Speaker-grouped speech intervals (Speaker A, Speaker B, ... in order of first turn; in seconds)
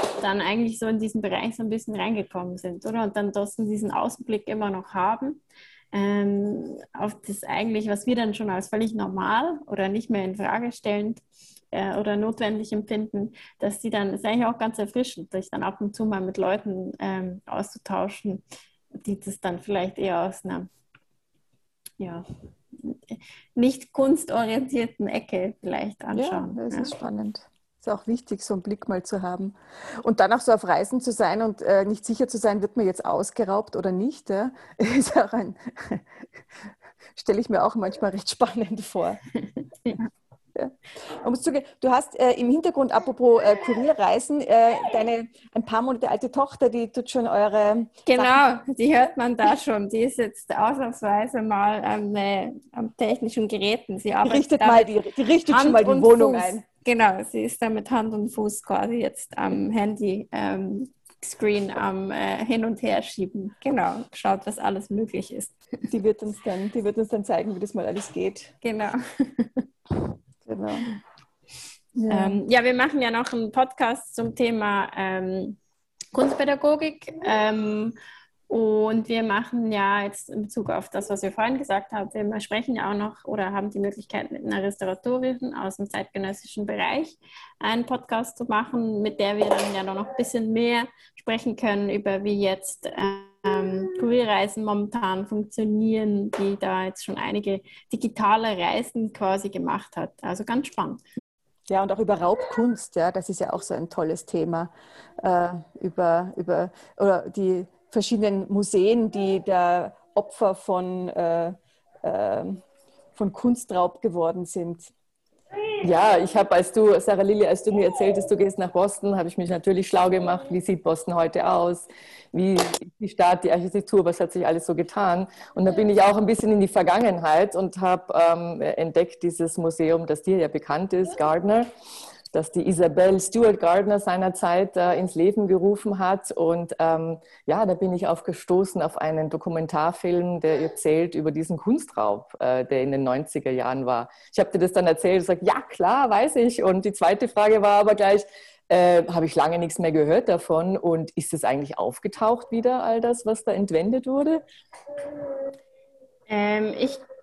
Speaker A: 0.2-5.4, 5.9-18.4, 19.0-20.7, 22.0-26.9, 48.0-54.9, 55.5-65.5, 68.6-69.6, 72.1-75.6, 76.1-77.9, 78.5-101.0, 156.3-157.0
Speaker B: 26.1-36.1, 37.1-39.2, 40.5-48.4, 54.2-56.6, 65.9-68.5, 70.4-70.9, 72.0-72.4, 101.7-112.6, 113.1-114.9
Speaker C: 115.8-131.7, 132.3-154.4